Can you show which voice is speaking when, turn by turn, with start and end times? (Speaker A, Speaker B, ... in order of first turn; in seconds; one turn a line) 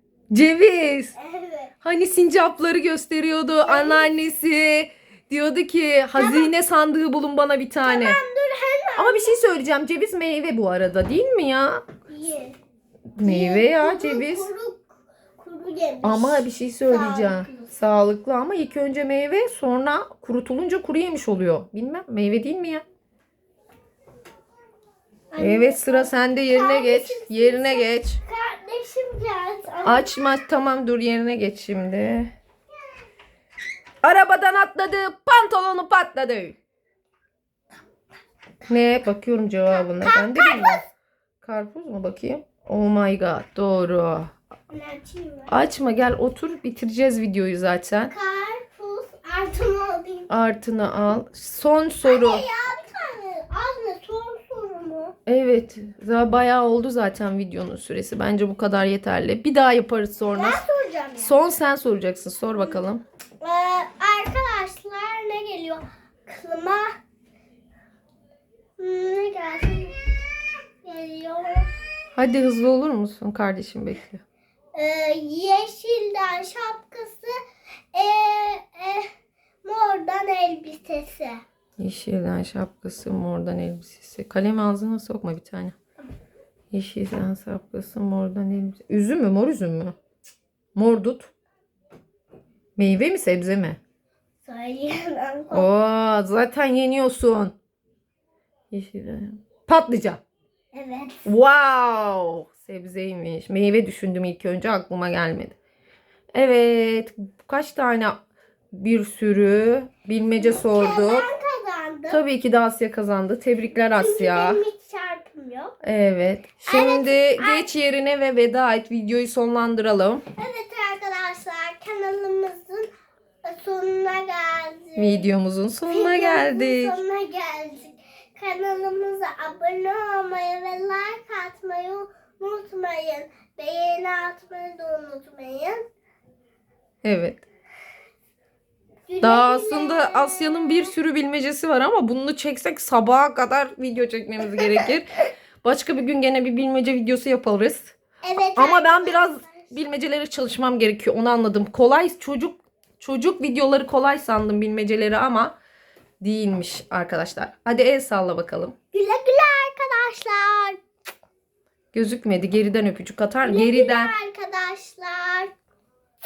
Speaker A: 0.3-1.1
Speaker B: 1.1-1.7
Speaker A: 1.8-8.2
Speaker B: 3.6-4.1
Speaker B: 6.1-6.5
Speaker B: 7.8-9.4
Speaker A: 9.0-11.8
Speaker B: 12.1-12.6
Speaker A: 13.2-14.5
Speaker B: 13.2-17.7
Speaker A: 16.0-22.8
Speaker B: 25.3-30.2
Speaker A: 25.4-28.2
Speaker A: 29.8-32.3
Speaker A: 34.0-36.5
Speaker A: 38.7-40.8
Speaker B: 39.7-40.8
Speaker A: 41.4-44.3
Speaker B: 44.7-45.5
Speaker A: 45.5-48.1
Speaker B: 48.1-50.3
Speaker A: 50.3-52.4
Speaker B: 52.0-55.1
Speaker A: 55.2-60.6
Speaker B: 60.3-61.3
Speaker A: 61.2-63.0
Speaker B: 63.4-67.0
Speaker B: 68.8-71.8
Speaker A: 72.1-74.2
Speaker B: 74.7-77.4
Speaker B: 77.9-79.1
Speaker B: 79.6-81.4
Speaker A: 81.8-85.7
Speaker A: 86.7-89.9
Speaker A: 90.7-91.3
Speaker A: 92.8-93.8
Speaker B: 94.4-95.7
Speaker A: 95.5-97.5
Speaker A: 98.7-100.2
Speaker B: 100.7-101.2
Speaker A: 101.2-105.5
Speaker A: 106.3-108.2
Speaker A: 108.7-111.3
Speaker B: 110.4-112.2
Speaker A: 112.1-114.6
Speaker B: 114.0-115.7
Speaker A: 115.8-120.2
Speaker B: 116.6-117.7
Speaker B: 120.3-122.9
Speaker B: 123.4-125.3
Speaker A: 125.0-127.0
Speaker B: 125.9-135.8
Speaker A: 137.0-137.4
Speaker B: 139.1-140.9
Speaker A: 139.2-147.9
Speaker B: 148.2-149.7
Speaker A: 148.6-155.6
Speaker A: 156.2-158.7
Speaker B: 158.9-160.8
Speaker A: 161.9-164.1
Speaker B: 163.4-165.5